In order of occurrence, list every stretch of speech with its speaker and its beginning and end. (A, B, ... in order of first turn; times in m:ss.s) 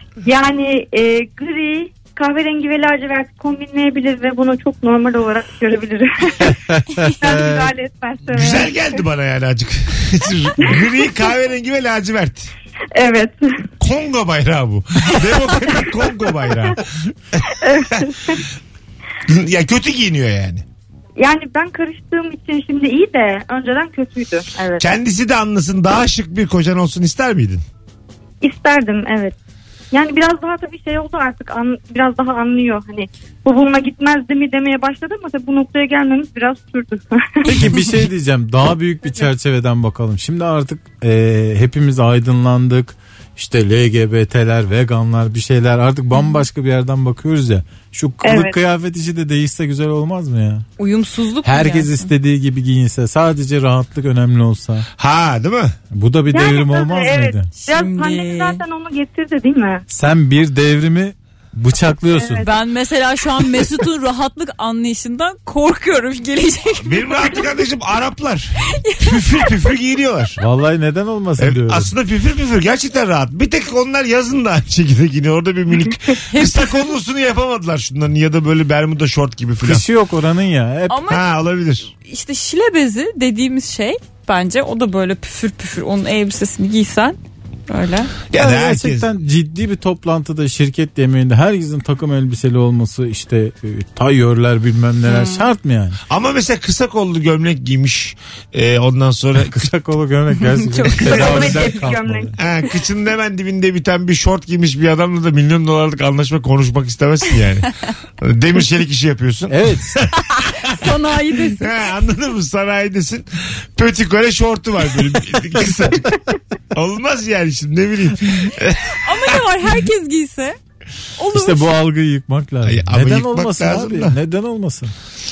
0:00.2-0:06.6 A
0:06.4-0:07.7 B
0:07.2-0:08.7 A
0:08.3-0:12.5 C
0:12.9-0:13.6 A
0:13.8-0:17.5 C
0:17.4-0:18.4 A
0:19.2-0:20.6 C
0:21.2-0:25.0 A
0:24.8-0:27.6 C
0:28.4-0:29.3 A
0:29.9-0:37.5 A
0:37.5-0:50.6 B
0:48.2-0:48.6 A
0:50.8-0:52.1 D
0:51.4-0:54.8 B
0:55.0-0:55.7 C
0:55.9-0:57.5 B
0:56.3-0:59.8 A
0:57.6-0:58.6 D
0:59.9-1:02.5 B
1:02.1-1:02.4 A
1:02.4-1:07.4 D
1:06.8-1:10.4 C
1:08.7-1:09.5 D
1:10.4-1:11.9 B
1:11.4-1:19.8 C
1:16.3-1:16.7 D
1:19.6-1:21.0 B
1:20.9-1:21.2 D
1:21.1-1:21.9 C
1:21.9-1:28.2 D
1:28.3-1:29.1 C
1:28.3-1:36.0 B
1:35.0-1:35.5 D
1:36.1-1:39.7 C
1:39.4-1:42.4 B
1:40.5-1:41.8 D
1:40.9-1:42.6 A
1:42.4-1:50.8 C
1:49.5-1:50.0 B
1:50.3-1:51.9 D
1:51.5-1:56.2 C
1:56.7-1:59.4 C
1:58.7-2:00.6 D
2:01.2-2:01.8 D
2:01.3-2:04.9 B
2:02.6-2:04.2 C